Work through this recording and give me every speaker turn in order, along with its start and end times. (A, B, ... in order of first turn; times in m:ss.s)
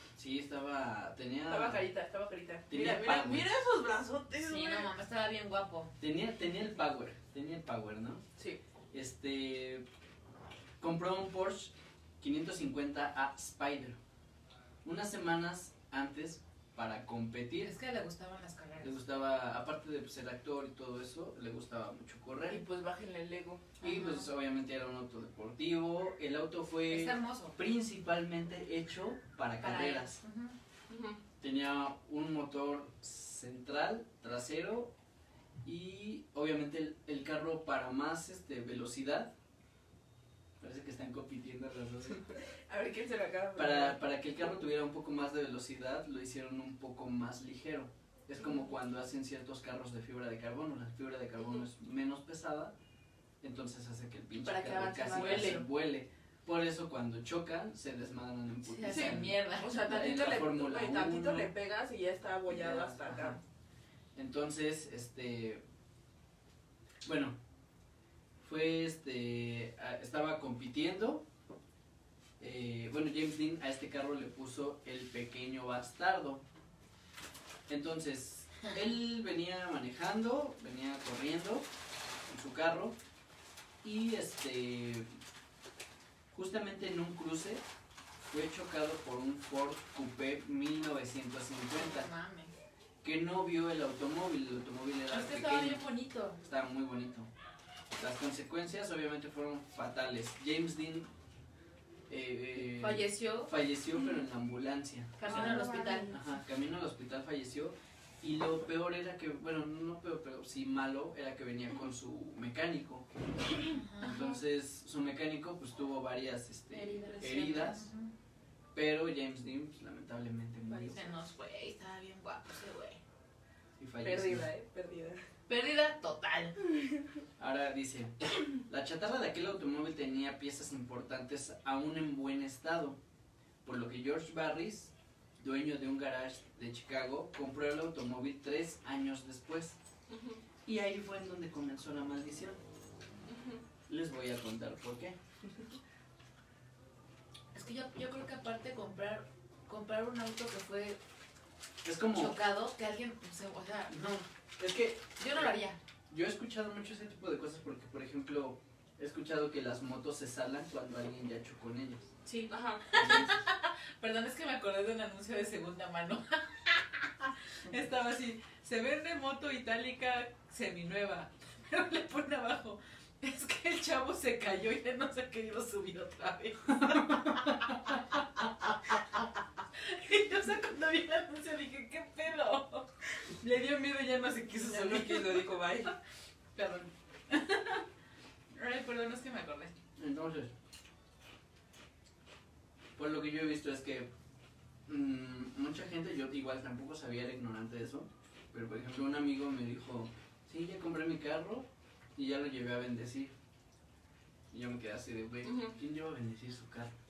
0:00.1-0:01.8 A
0:01.5-0:04.9 B
0:02.7-0:03.5 A
0:04.4-0:05.9 C
0:06.0-0:08.2 A
0:08.9-0:09.8 A
0:10.8-0:14.0 A
0:14.8-0:17.8 A
0:17.6-0:18.9 C
0:18.8-0:22.6 A
0:22.5-0:23.7 B
0:23.8-0:24.3 C
0:23.8-0:30.2 A
0:26.9-0:27.6 C
0:29.6-0:30.6 C
0:30.9-0:31.2 B
0:31.4-0:34.9 A
0:35.6-0:39.3 A
0:40.6-0:42.2 A
0:42.6-0:44.0 B
0:43.6-0:52.7 A
0:51.4-0:51.6 B
0:53.4-1:01.5 A
0:54.4-0:55.6 B
0:58.6-0:59.8 C
0:58.8-1:03.4 B
1:02.5-1:03.4 A
1:04.1-1:05.6 A
1:07.0-1:07.4 A
1:08.4-1:11.2 A
1:12.4-1:16.4 A
1:17.7-1:21.7 A
1:22.2-1:23.0 A
1:23.8-1:25.2 A
1:26.3-1:27.6 A
1:28.3-1:32.1 A
1:31.7-1:32.5 C
1:33.0-1:35.8 A
1:35.1-1:36.4 C
1:36.4-1:37.3 A
1:38.0-1:41.1 A
1:42.1-1:57.9 A
1:42.8-1:43.5 C
1:45.2-1:46.1 C
1:45.2-1:46.3 B
1:53.7-1:54.4 C
1:56.7-1:58.1 C
1:58.7-2:01.0 A
2:00.7-2:01.2 B
2:00.9-2:03.0 C
2:03.8-2:04.5 A
2:04.0-2:05.2 B
2:05.5-2:06.5 C
2:06.6-2:07.2 B
2:07.4-2:13.0 A
2:13.6-2:19.8 A
2:20.1-2:20.4 B
2:20.6-2:22.6 A
2:23.3-2:23.6 B
2:23.9-2:25.2 A
2:27.5-2:31.0 C
2:31.8-2:32.4 A
2:32.2-2:34.2 C
2:33.9-2:35.5 A
2:35.2-2:35.8 C
2:36.1-2:42.1 A
2:42.2-2:59.2 C
2:42.5-2:43.0 B
2:43.0-2:43.3 A
2:56.7-2:57.9 A
2:59.7-3:06.0 C
3:04.6-3:05.9 B
3:06.5-3:07.8 C
3:08.5-3:09.7 C
3:10.0-3:10.5 A
3:13.0-3:14.1 A
3:14.9-3:23.3 A
3:24.5-3:26.9 A
3:25.4-3:25.8 B